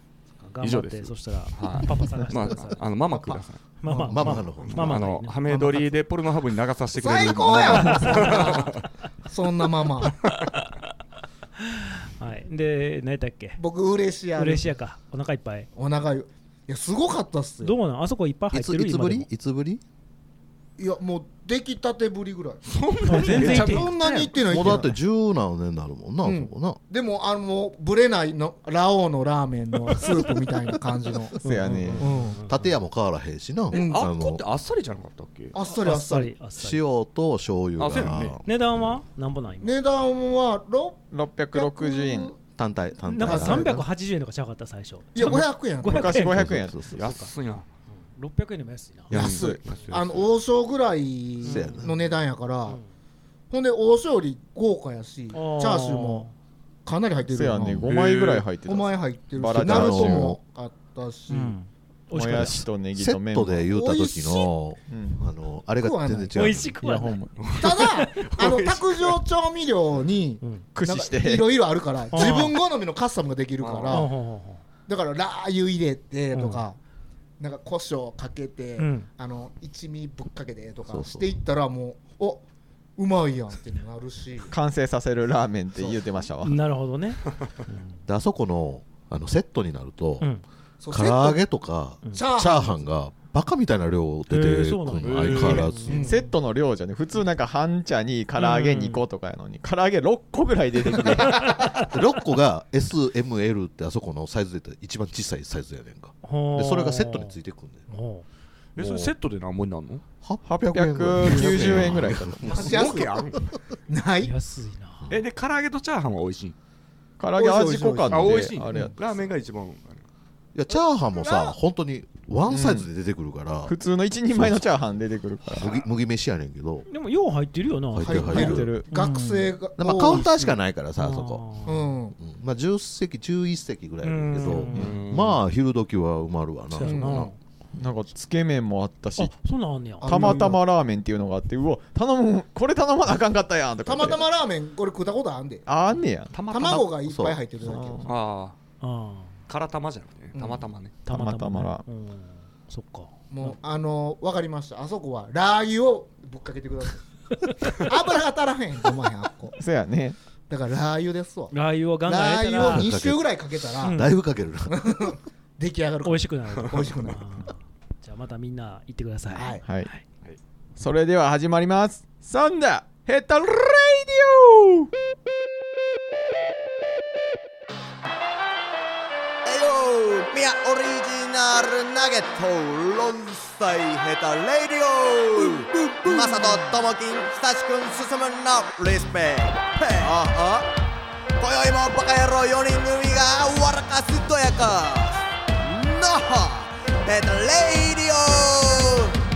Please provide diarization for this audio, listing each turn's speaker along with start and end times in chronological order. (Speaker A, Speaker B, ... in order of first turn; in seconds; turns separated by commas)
Speaker A: 0.4-2.8, Speaker B: 0.6-3.6, Speaker A: 3.8-5.9, Speaker C: 3.9-4.2, Speaker D: 4.0-5.1, Speaker B: 4.3-8.8, Speaker C: 6.9-10.2, Speaker A: 7.6-8.6, Speaker A: 11.8-13.6, Speaker C: 13.6-14.7, Speaker A: 14.3-15.7, Speaker C: 15.7-17.8, Speaker A: 17.6-19.3, Speaker D: 18.5-19.8, Speaker C: 20.8-22.6, Speaker B: 22.6-24.0, Speaker A: 23.0-24.3, Speaker E: 23.2-23.8, Speaker C: 23.2-24.8, Speaker D: 24.4-26.8, Speaker E: 24.5-24.9, Speaker C: 26.2-31.4, Speaker A: 31.4-32.5, Speaker E: 31.4-32.1, Speaker C: 32.0-32.4, Speaker D: 32.4-34.4, Speaker C: 33.7-34.1, Speaker B: 33.7-35.5, Speaker C: 35.5-36.3, Speaker A: 35.6-36.8, Speaker D: 36.6-38.4, Speaker B: 37.8-38.4, Speaker A: 38.4-39.8, Speaker C: 39.6-42.4, Speaker E: 41.1-42.3, Speaker D: 42.5-43.8, Speaker A: 43.1-47.3, Speaker C: 43.2-43.8, Speaker C: 45.1-46.2, Speaker E: 45.8-46.8, Speaker D: 46.2-47.1, Speaker B: 47.0-47.6, Speaker A: 48.1-49.1, Speaker E: 49.1-49.6, Speaker B: 49.1-50.2, Speaker C: 49.1-52.8, Speaker A: 51.4-51.9, Speaker D: 51.4-52.0, Speaker C: 53.5-56.2, Speaker A: 55.3-56.3, Speaker C: 56.9-57.9, Speaker E: 57.3-60.4, Speaker B: 57.9-58.4, Speaker C: 58.6-61.6, Speaker D: 59.6-60.4, Speaker A: 61.3-62.6, Speaker E: 62.1-63.7, Speaker D: 62.4-66.8, Speaker C: 63.7-64.5, Speaker E: 64.9-65.2, Speaker C: 65.8-66.4, Speaker A: 66.3-67.2, Speaker E: 66.8-67.4, Speaker B: 67.4-69.2, Speaker C: 67.6-74.1, Speaker E: 70.7-71.5, Speaker A: 72.1-72.5, Speaker B: 73.6-74.1, Speaker A: 73.9-74.6, Speaker C: 74.9-76.8, Speaker A: 76.3-76.6, Speaker C: 77.4-82.4, Speaker A: 78.8-79.1, Speaker D: 80.9-81.3, Speaker C: 83.0-84.5, Speaker E: 84.5-86.5, Speaker A: 86.4-88.0, Speaker D: 88.1-90.3, Speaker C: 90.8-91.4, Speaker D: 90.9-96.0, Speaker C: 92.1-92.8, Speaker A: 94.3-96.1, Speaker B: 95.1-95.7, Speaker C: 95.8-96.3, Speaker E: 96.0-101.5, Speaker A: 98.4-99.0, Speaker A: 101.4-101.7, Speaker D: 101.8-107.8, Speaker A: 106.2-107.4, Speaker A: 107.9-108.2, Speaker B: 108.8-110.0, Speaker E: 108.8-109.1, Speaker D: 110.2-113.5, Speaker E: 110.4-112.4, Speaker B: 112.5-113.4, Speaker C: 112.5-113.2, Speaker C: 113.9-114.3, Speaker A: 114.2-115.0, Speaker B: 115.1-116.5, Speaker E: 117.2-119.0, Speaker C: 117.4-118.9, Speaker B: 118.1-120.0, Speaker D: 120.5-123.7, Speaker C: 120.7-121.6, Speaker E: 122.5-122.9, Speaker E: 123.7-125.8, Speaker D: 124.3-124.7, Speaker D: 125.5-126.9, Speaker A: 126.9-129.5, Speaker D: 127.9-128.7, Speaker C: 128.0-130.6, Speaker E: 128.3-128.9, Speaker D: 129.8-131.6, Speaker A: 130.9-131.9, Speaker C: 131.7-132.2, Speaker D: 132.2-137.3, Speaker A: 134.0-134.8, Speaker B: 134.7-135.4, Speaker A: 136.7-137.3, Speaker C: 136.8-137.2, Speaker E: 137.7-139.4, Speaker A: 139.2-140.6, Speaker C: 140.0-140.5, Speaker E: 140.0-144.2, Speaker C: 143.8-145.7, Speaker E: 145.7-146.3, Speaker B: 146.3-146.9, Speaker C: 146.5-148.1, Speaker D: 147.0-147.4, Speaker E: 147.6-148.1, Speaker B: 148.1-148.6, Speaker A: 148.8-149.3, Speaker B: 149.5-150.9, Speaker C: 150.3-150.7, Speaker E: 151.1-151.8, Speaker A: 151.1-153.5, Speaker C: 153.3-157.1, Speaker C: 157.7-159.6, Speaker E: 159.6-160.2, Speaker C: 160.5-161.5, Speaker A: 161.5-162.9, Speaker C: 162.0-164.0, Speaker D: 162.6-163.3, Speaker A: 163.8-164.1, Speaker D: 163.8-164.8, Speaker C: 164.7-167.2, Speaker A: 166.0-170.0, Speaker C: 169.3-169.6, Speaker E: 170.8-174.9, Speaker F: 179.4-190.7, Speaker F: 191.4-199.2